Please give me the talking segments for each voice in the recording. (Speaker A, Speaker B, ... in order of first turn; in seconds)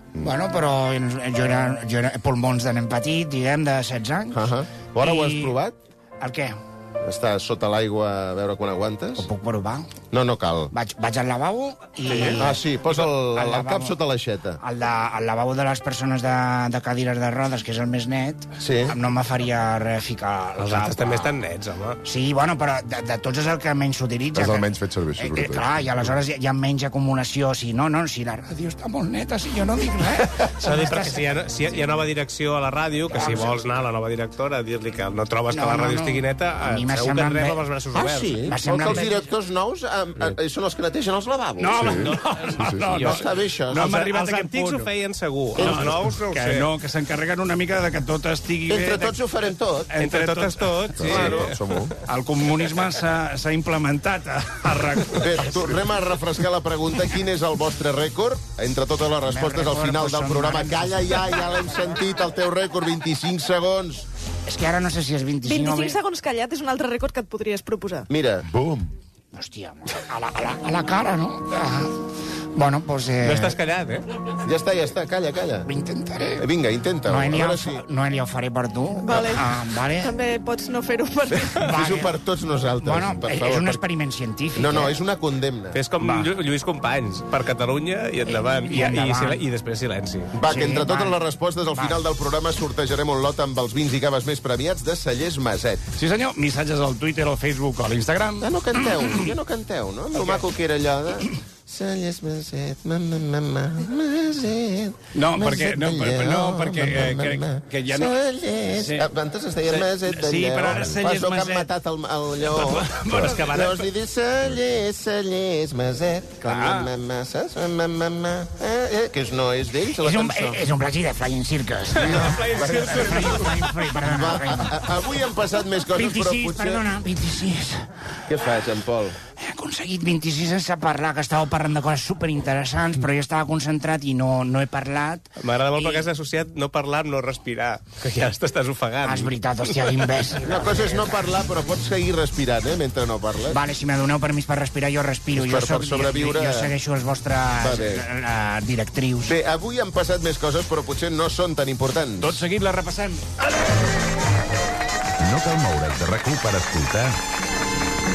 Speaker A: 0.2-4.5, 5.0-5.5, 6.2-6.5, 9.2-9.9, 10.7-14.0, 14.6-21.3, 22.0-31.2, 33.1-33.6, 35.5-39.3, 59.3-61.4, 64.5-66.0, 69.3-71.9, 72.5-73.6, 75.7-76.5, 77.0-80.1, 81.6-82.1, 82.8-85.0, 86.0-86.3, 88.3-89.4, 90.4-91.2, 120.0-124.9, 125.9-127.9, 129.4-136.1, 139.0-141.3, 143.5-149.4
Speaker B: 4.3-5.8, 7.0-9.3, 10.1-10.7, 12.1-14.6, 18.6-19.0, 38.0-41.8, 43.0-43.8, 45.6-45.9, 48.7-49.9, 51.1-51.5, 55.1-64.1, 68.1-68.5, 74.5-75.7, 76.4-77.8, 81.3-83.8, 84.5-85.8, 90.3-95.8, 98.4-120.6, 122.1-123.3, 124.0-126.9, 128.3-129.2, 140.4-143.6, 145.3-146.7, 147.6-148.0, 149.2-152.4
Speaker C: 12.1-12.4, 20.6-22.0, 30.5-39.0, 41.9-46.7, 50.0-51.8, 73.2-74.1, 85.7-90.3, 113.1-113.9, 122.0-123.8, 135.4-140.0
Speaker D: 24.3-26.2, 41.8-43.0, 51.0-51.9, 68.5-68.9
Speaker E: 41.6-44.9, 45.5-49.2, 49.9-51.4, 52.1-55.7, 96.0-99.3, 105.1-108.2, 108.7-109.1, 109.7-111.7, 112.4-113.7, 116.4-116.9, 152.2-153.2
Speaker F: 65.5-68.1, 79.0-79.5, 80.0-81.5
Speaker G: 155.2-157.2